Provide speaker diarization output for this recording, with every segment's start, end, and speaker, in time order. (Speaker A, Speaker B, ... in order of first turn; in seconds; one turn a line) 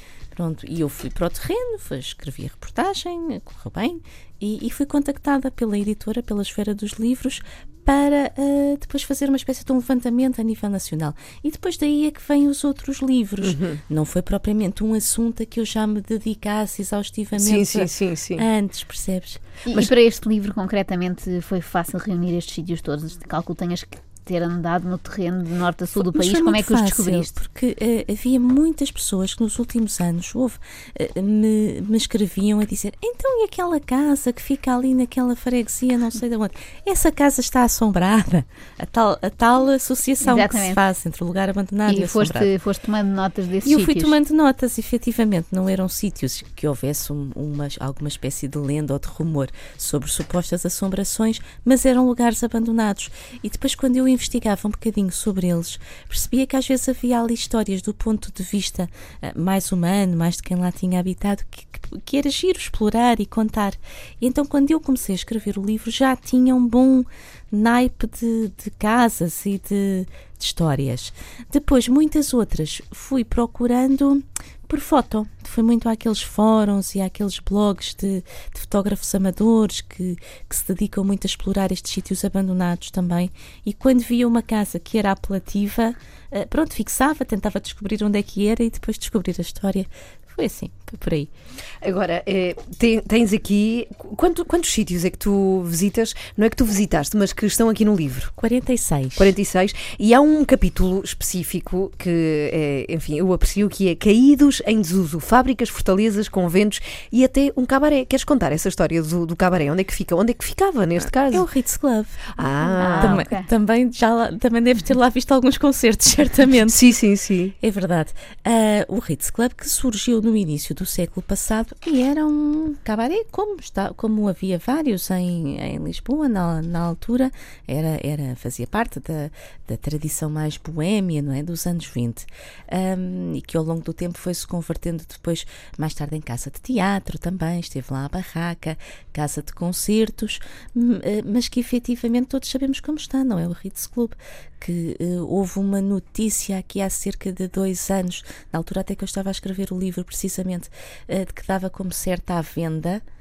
Speaker A: 0.3-19.4
Speaker B: 13.4-13.8
Speaker B: 17.4-18.5
Speaker C: 19.7-27.3
Speaker A: 26.0-42.5
Speaker C: 40.2-40.8
Speaker C: 41.9-44.2
Speaker A: 43.6-91.3
Speaker B: 91.8-98.3
Speaker A: 98.4-99.3
Speaker B: 99.2-111.5
Speaker A: 111.3-112.3
Speaker B: 112.3-113.2
Speaker C: 112.8-113.5
Speaker A: 113.0-116.8
Speaker B: 116.7-117.5
Speaker A: 117.6-153.0